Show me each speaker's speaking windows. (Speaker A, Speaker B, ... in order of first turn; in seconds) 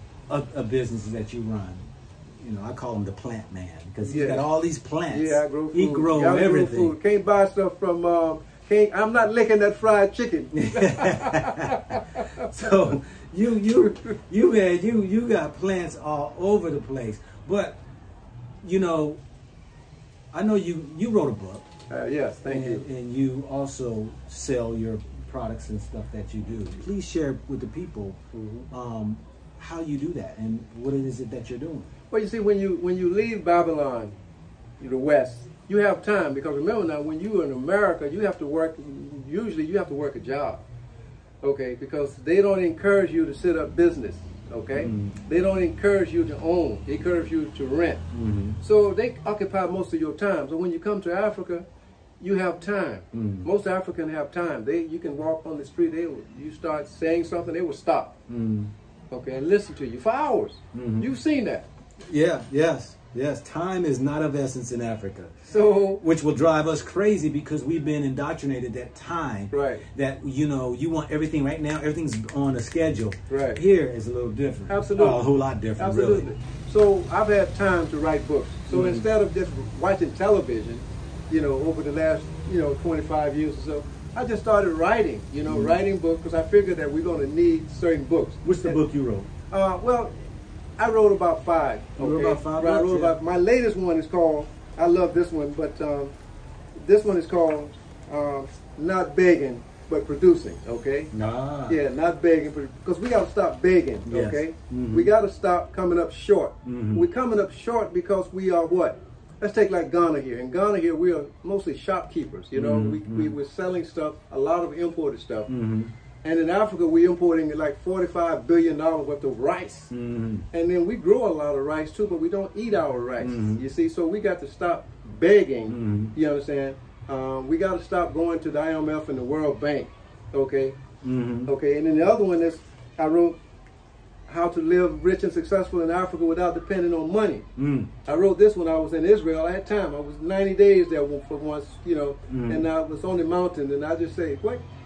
Speaker A: 0.3-7.0, 10.5-17.8, 18.6-19.2, 20.3-21.7, 22.5-31.9, 44.8-45.2, 48.1-48.6, 53.1-53.5, 58.3-58.7, 60.7-61.1, 62.0-65.4, 66.0-76.2, 78.7-79.0, 85.5-85.8, 88.4-89.3, 92.0-93.1, 101.1-101.8, 104.1-105.1, 106.6-107.1, 112.5-113.3, 115.5-115.9, 119.9-120.5, 123.2-123.6, 125.7-126.1, 131.0-131.5, 137.6-137.9, 142.3-142.6
Speaker B: 4.0-4.4, 5.1-12.9, 13.8-14.2, 21.9-22.8, 28.3-28.7, 32.1-34.1, 34.8-40.6, 41.4-48.0, 48.6-51.6, 52.2-58.2, 59.1-61.7, 65.5-66.0, 69.5-69.8, 73.3-73.6, 74.7-75.2, 75.8-88.8, 89.5-90.1, 90.8-96.1, 96.8-101.1, 101.7-115.5, 116.2-119.9, 120.5-130.8, 131.4-133.4, 134.3-137.4, 138.0-144.6